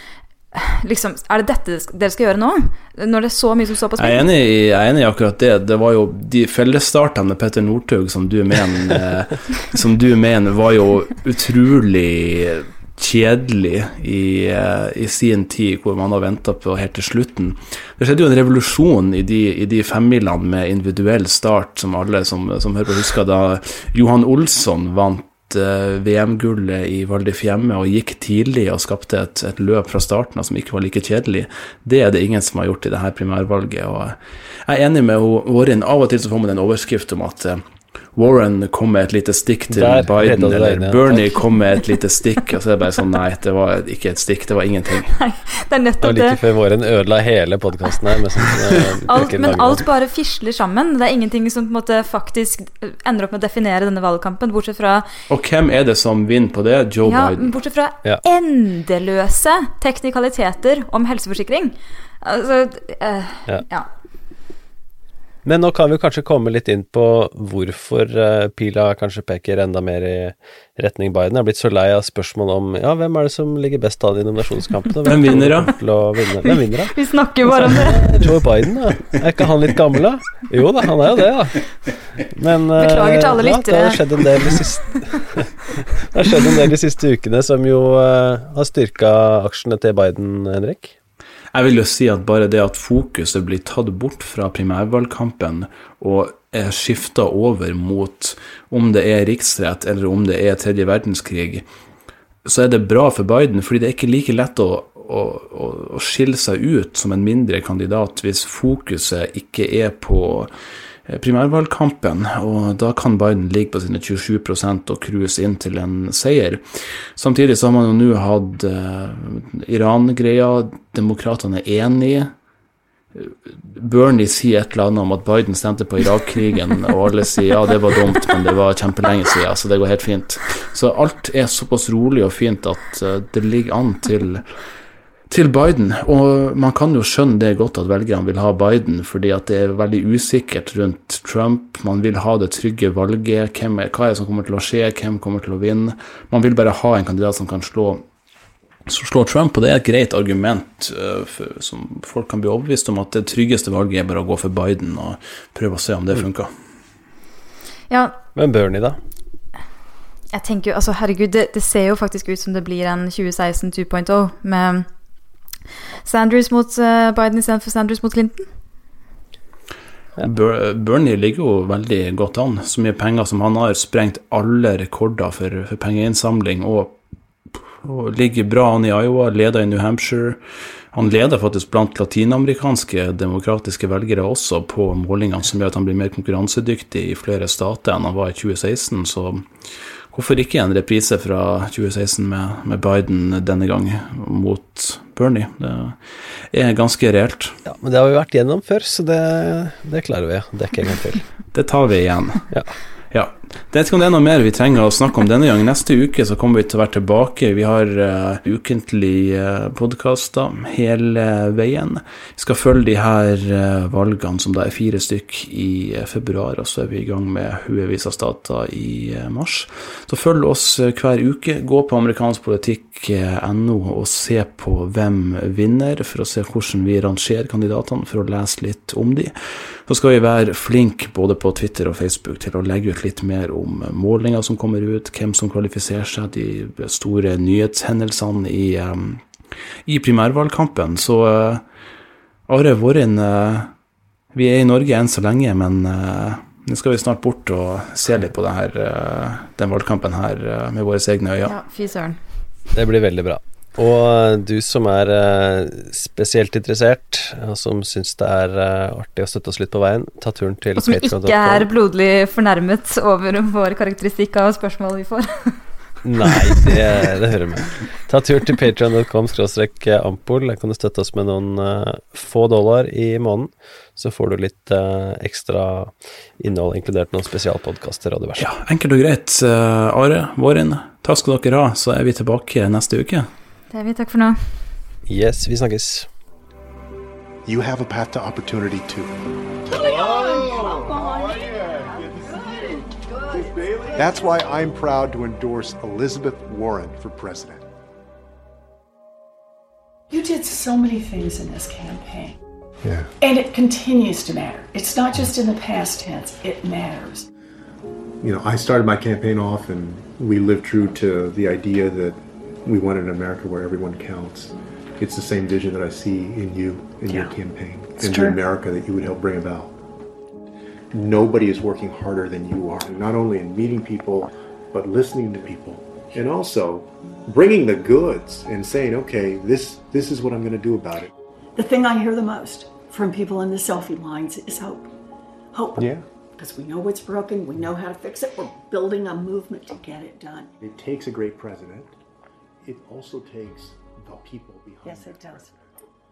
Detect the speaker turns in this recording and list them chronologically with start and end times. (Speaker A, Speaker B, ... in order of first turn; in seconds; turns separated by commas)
Speaker A: 0.5-4.2, Speaker B: 4.0-37.6, Speaker B: 38.1-45.2, Speaker C: 39.7-41.4, Speaker A: 45.1-46.4, Speaker C: 46.0-49.8, Speaker A: 49.1-55.1, Speaker B: 55.3-57.5, Speaker A: 57.0-63.9, Speaker C: 65.4-76.9, Speaker B: 75.0-75.7, Speaker A: 76.4-78.0, Speaker C: 77.5-81.7, Speaker C: 82.3-85.5, Speaker A: 82.8-84.6, Speaker C: 86.1-90.9, Speaker B: 91.5-101.6, Speaker B: 102.4-110.5, Speaker B: 111.1-122.3, Speaker B: 123.1-134.4, Speaker B: 135.3-148.0, Speaker B: 148.8-156.5, Speaker A: 157.9-158.2, Speaker C: 158.3-159.0, Speaker A: 160.3-164.9, Speaker A: 166.0-168.5, Speaker B: 170.2-177.0, Speaker B: 177.8-180.4, Speaker B: 180.9-189.5, Speaker B: 190.1-196.0, Speaker B: 196.5-197.6, Speaker C: 197.7-201.2, Speaker B: 201.5-202.4, Speaker B: 203.1-239.2, Speaker B: 239.8-241.6, Speaker B: 242.5-243.7, Speaker B: 244.3-251.6, Speaker A: 251.4-252.2, Speaker C: 252.7-261.7, Speaker A: 260.8-265.6, Speaker C: 266.0-278.4, Speaker B: 278.4-283.3, Speaker A: 283.7-284.4, Speaker C: 285.1-286.1, Speaker D: 287.4-289.3, Speaker E: 289.7-294.0, Speaker D: 293.5-297.7, Speaker E: 300.1-302.4, Speaker D: 302.8-303.1, Speaker E: 303.2-307.3, Speaker D: 308.2-319.8, Speaker E: 317.1-317.4, Speaker E: 317.9-318.4, Speaker D: 320.9-331.1, Speaker E: 331.6-334.9, Speaker E: 335.5-340.5, Speaker D: 335.8-336.0, Speaker D: 340.6-341.9, Speaker D: 342.6-345.8, Speaker E: 344.8-345.5